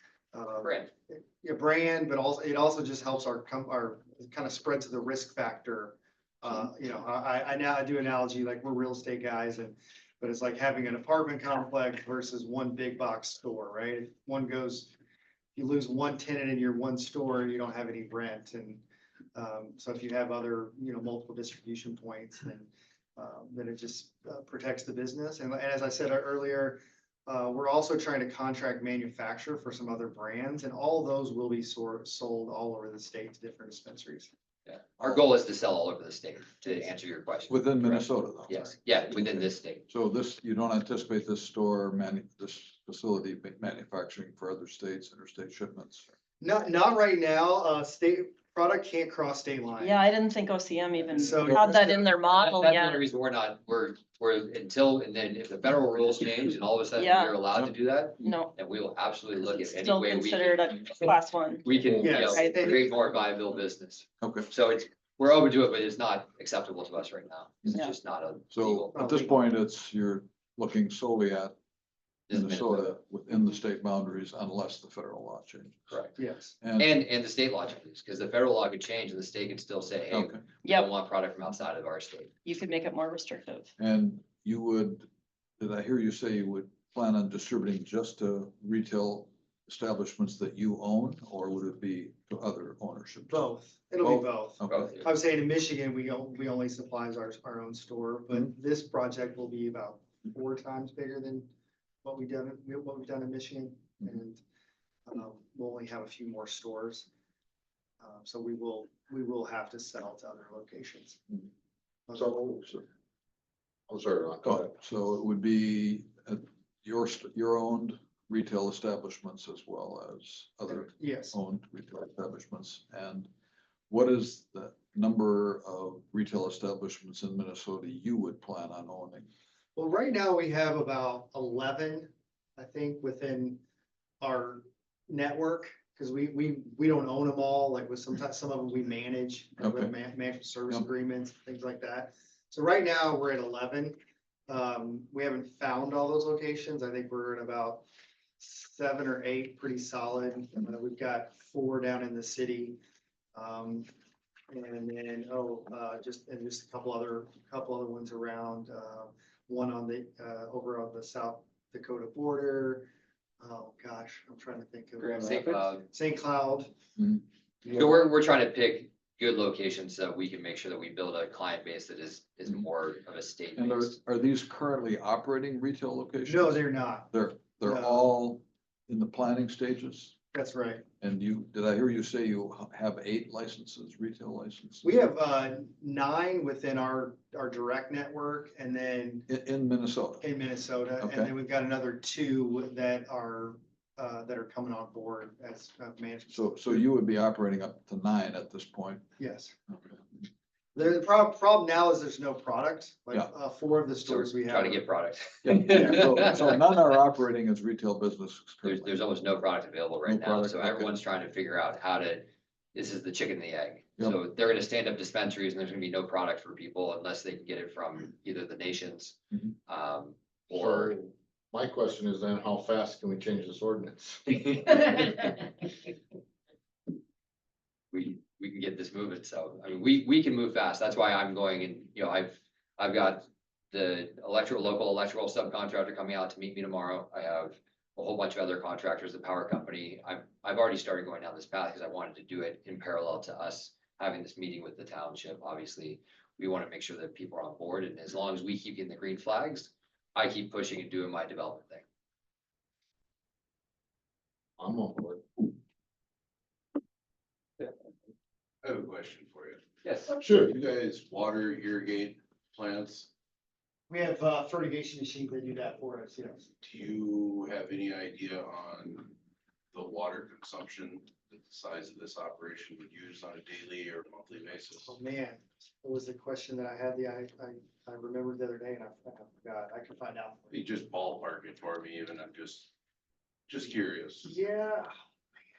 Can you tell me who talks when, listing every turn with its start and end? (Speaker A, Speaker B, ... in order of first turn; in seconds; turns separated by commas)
Speaker A: 0.3-14.9, Speaker B: 0.6-0.9, Speaker A: 15.6-18.8, Speaker A: 19.3-34.3, Speaker B: 34.7-39.8, Speaker C: 37.5-38.5, Speaker C: 39.1-46.1, Speaker A: 46.4-50.0, Speaker D: 49.8-53.0, Speaker A: 51.1-52.1, Speaker B: 52.3-61.1, Speaker D: 57.0-57.4, Speaker D: 58.2-58.5, Speaker D: 59.4-62.8, Speaker B: 61.6-69.0, Speaker A: 62.0-62.8, Speaker C: 64.2-64.5, Speaker C: 68.5-71.5, Speaker A: 68.9-69.4, Speaker B: 72.3-72.9, Speaker C: 72.3-75.9, Speaker B: 75.9-76.2, Speaker A: 76.2-76.6, Speaker C: 76.6-76.9, Speaker B: 76.8-82.3, Speaker C: 80.1-80.4, Speaker D: 80.6-80.9, Speaker D: 82.5-83.7, Speaker C: 83.8-85.1, Speaker C: 85.6-93.5, Speaker A: 93.3-101.5, Speaker C: 94.0-94.9, Speaker B: 94.6-95.1, Speaker A: 102.0-104.4, Speaker A: 105.1-107.1, Speaker A: 108.0-111.2, Speaker A: 112.1-112.3, Speaker E: 112.2-112.6, Speaker E: 113.9-114.7, Speaker C: 114.4-123.3, Speaker A: 120.8-121.3, Speaker C: 123.9-129.3, Speaker A: 129.8-133.6, Speaker A: 134.2-144.0, Speaker C: 139.6-139.9, Speaker A: 144.5-147.8, Speaker A: 148.4-152.8, Speaker A: 153.3-153.9, Speaker A: 154.5-162.9, Speaker A: 163.4-166.7, Speaker B: 165.2-165.9, Speaker A: 167.6-168.0, Speaker B: 167.7-174.0, Speaker C: 173.6-180.1, Speaker A: 176.3-178.1, Speaker A: 180.3-180.8, Speaker C: 181.0-184.8, Speaker A: 184.8-189.3, Speaker C: 189.3-190.3, Speaker A: 190.2-196.8, Speaker C: 191.0-191.3, Speaker C: 196.3-199.1, Speaker A: 199.2-199.5, Speaker A: 200.8-204.9, Speaker B: 204.0-206.6, Speaker C: 205.4-209.1, Speaker B: 208.6-220.9, Speaker C: 210.0-210.9, Speaker E: 220.5-224.8, Speaker B: 227.9-251.8, Speaker E: 254.6-255.2, Speaker F: 258.6-259.6, Speaker B: 259.8-260.1, Speaker E: 260.2-260.5, Speaker F: 260.3-263.1, Speaker A: 263.9-266.5, Speaker F: 266.6-269.1, Speaker F: 269.7-274.9, Speaker A: 274.8-280.6, Speaker F: 280.5-282.7, Speaker F: 283.5-284.3, Speaker A: 284.2-284.9